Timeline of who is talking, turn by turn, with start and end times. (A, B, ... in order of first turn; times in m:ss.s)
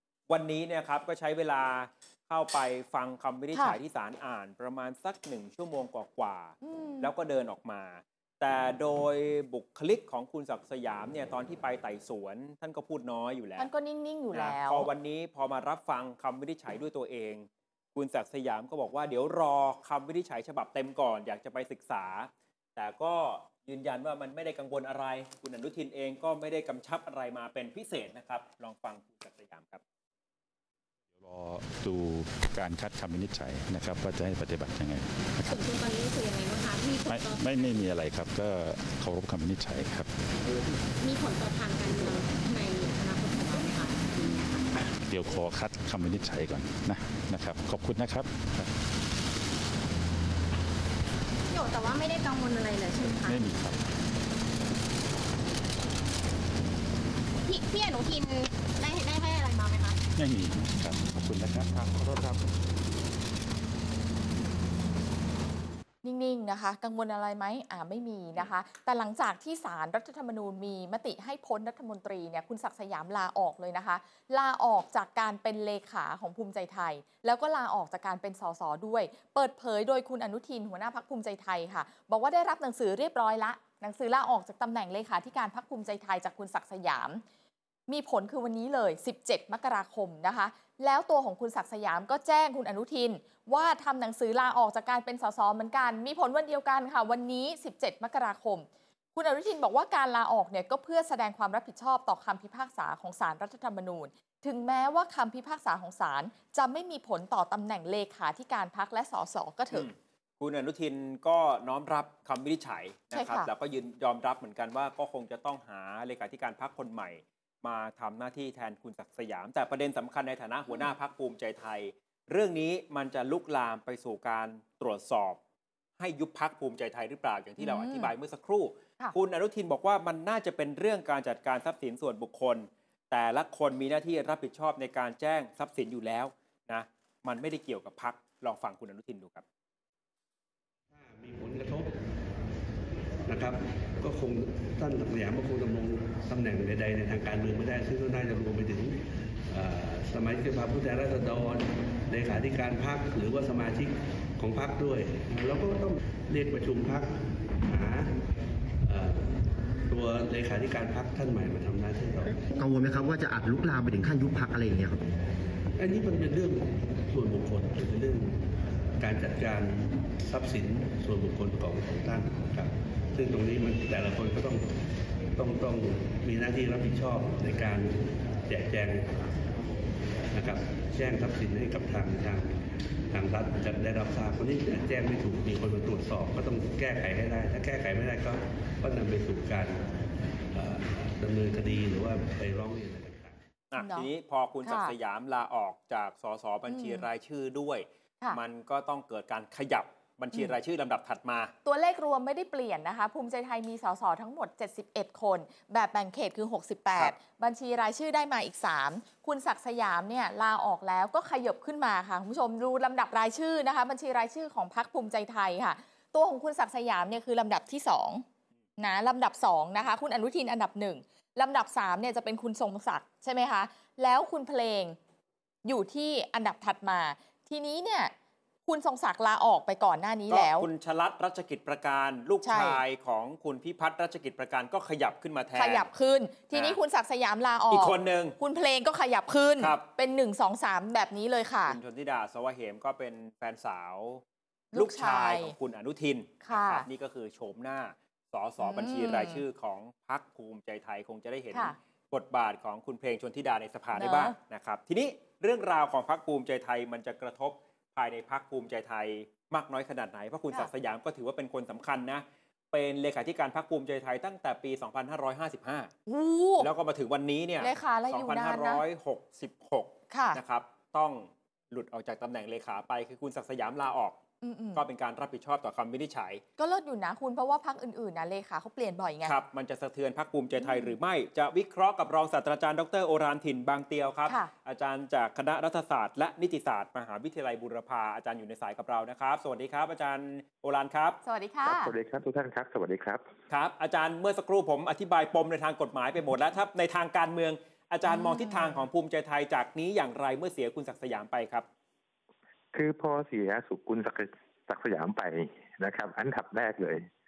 0:00.3-0:13.7 A
0:06.6-0:07.1 B
0:13.6-0:14.9 B
0:14.3-0:29.8 A
0:31.1-0:35.6 C
0:35.5-0:37.8 D
0:37.1-0:40.1 C
0:41.0-0:44.7 D
0:44.7-0:48.7 C
0:51.5-0:53.4 D
0:53.2-0:53.8 C
0:57.4-1:00.0 D
1:00.2-1:02.4 C
1:06.0-1:27.2 B
1:27.9-1:49.9 B
1:49.7-2:05.4 A
1:53.1-1:53.5 B
2:06.0-2:19.4 A
2:07.6-2:08.1 B
2:20.9-2:22.0 E
2:23.2-2:38.2 E
2:38.8-2:42.4 E
2:42.5-2:45.0 F
2:45.7-2:54.7 E
2:55.4-2:59.1 E
3:00.3-3:13.4 E
3:13.7-3:21.5 A
3:13.8-3:14.1 B
3:14.6-3:14.9 B
3:16.7-3:17.0 B
3:21.6-3:38.2 B
3:38.8-3:45.0 B
3:45.6-3:48.1 B
3:48.6-3:50.7 B
3:50.3-3:55.9 A
3:52.4-3:52.8 B
3:55.5-4:01.8 B
3:56.5-3:56.8 A
3:57.7-3:58.4 A
3:59.6-3:59.8 A
4:01.6-4:04.2 A
4:04.7-4:05.5 B
4:04.7-4:25.9 A
4:06.4-4:06.8 B
4:08.6-4:09.4 B
4:13.9-4:14.3 B
4:26.1-4:26.7 B
4:26.6-4:34.2 A
4:27.6-4:28.8 B
4:30.1-4:30.4 B
4:34.4-4:34.8 B
4:34.7-4:36.4 A
4:36.6-4:39.3 B
4:39.2-4:51.2 A
4:40.6-4:41.0 B
4:51.2-4:51.9 B
4:51.6-4:53.2 G
4:53.5-5:01.6 A
4:58.0-4:58.9 B
5:02.7-5:07.1 G